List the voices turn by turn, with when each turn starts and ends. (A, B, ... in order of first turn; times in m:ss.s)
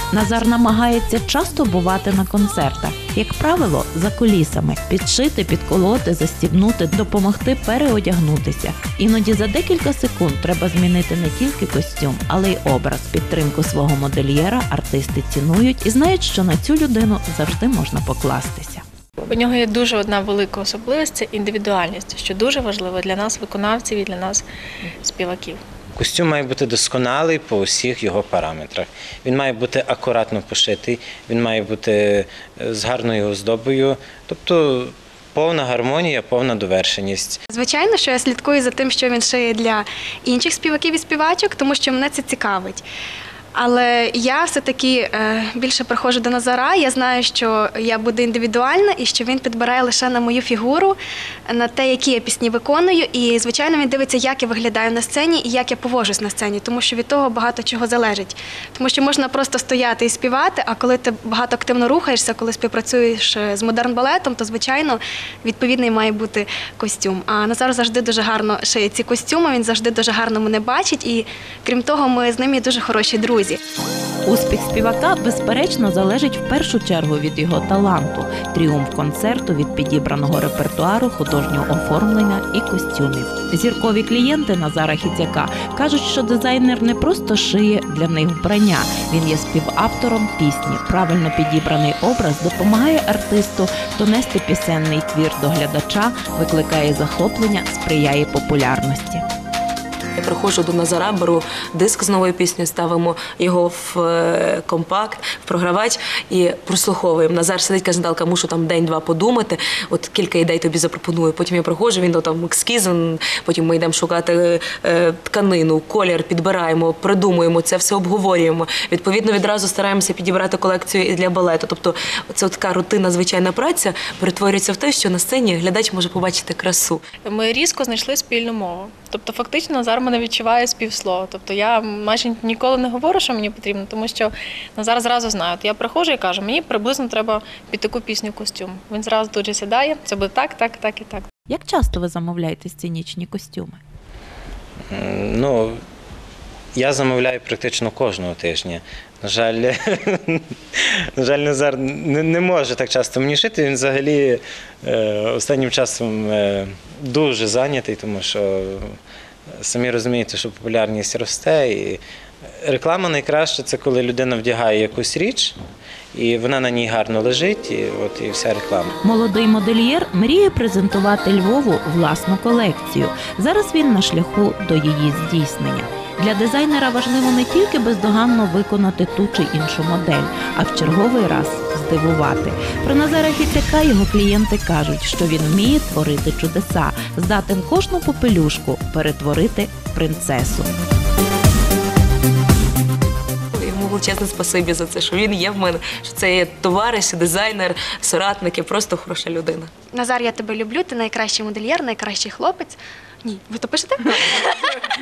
0:00.1-0:18.8 A
0:19.3-0:24.4 B
0:25.0-0:25.6 B
0:26.0-0:37.4 C
0:37.5-0:42.8 D
0:43.5-0:51.0 D
0:51.5-1:13.6 D
1:14.2-1:39.2 A
1:40.2-2:07.0 E
2:07.2-2:21.2 B
2:21.5-2:23.8 A
2:24.9-2:25.8 C
2:26.7-2:39.0 C
2:39.6-2:42.0 C
2:42.6-2:45.6 C
2:46.1-2:48.9 C
2:49.0-3:10.7 A
3:13.5-3:19.7 E
3:19.9-3:24.5 D